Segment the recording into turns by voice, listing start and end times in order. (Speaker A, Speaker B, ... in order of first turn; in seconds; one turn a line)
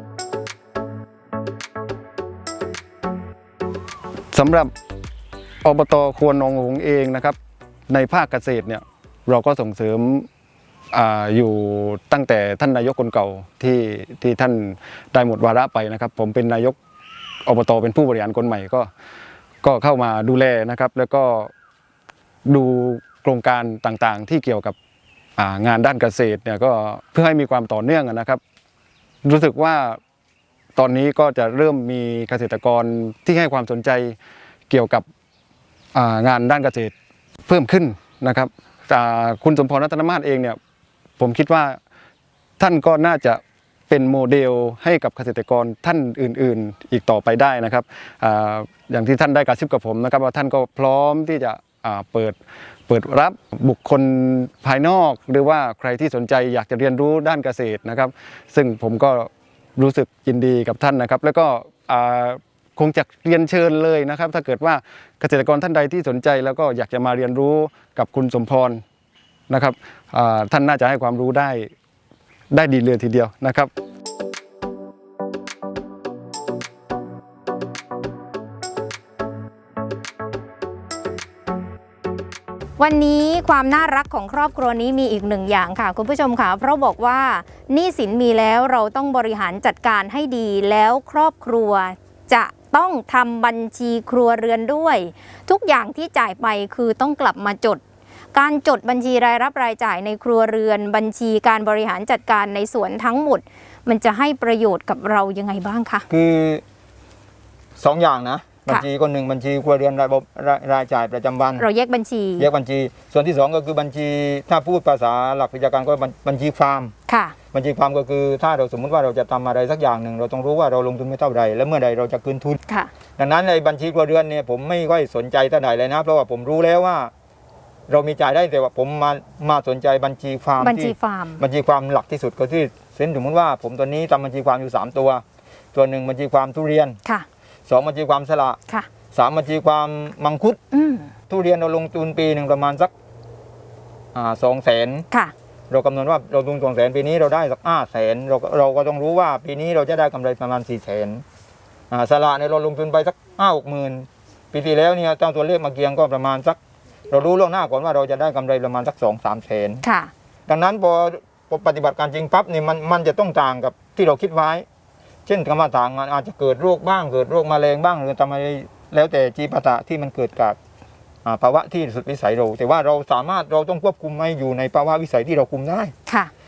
Speaker A: 4.3-4.7
Speaker A: 5.6-7.3
Speaker A: 7.9-10.3
Speaker A: 10.9-16.8
Speaker A: 17.4-18.9
Speaker A: 19.6-21.5
Speaker A: 22.5-24.7
Speaker A: 25.4-28.4
Speaker A: 29.2-30.0
Speaker A: 30.8-34.1
Speaker A: 34.7-35.0
Speaker A: 35.9-36.9
Speaker A: 37.5-40.6
Speaker A: 41.2-41.8
Speaker A: 42.6-52.4
Speaker A: 52.9-68.8
Speaker A: 69.5-71.7
Speaker A: 72.5-73.7
Speaker B: 82.8-97.8
Speaker B: 98.3-106.0
Speaker C: 106.1-106.6
Speaker C: 107.8-111.7
Speaker B: 111.6-112.5
Speaker C: 112.4-116.9
Speaker B: 117.1-117.3
Speaker C: 117.5-122.6
Speaker C: 123.2-127.1
Speaker C: 127.9-135.2
Speaker B: 130.6-131.4
Speaker C: 135.7-137.0
Speaker C: 137.7-138.6
Speaker C: 139.1-140.6
Speaker B: 140.7-141.1
Speaker C: 141.3-142.9
Speaker C: 144.1-145.1
Speaker C: 145.7-151.2
Speaker C: 151.9-156.6
Speaker C: 157.1-159.8
Speaker B: 159.8-160.1
Speaker C: 160.5-164.6
Speaker C: 165.2-170.6
Speaker C: 171.2-175.9
Speaker B: 176.1-176.3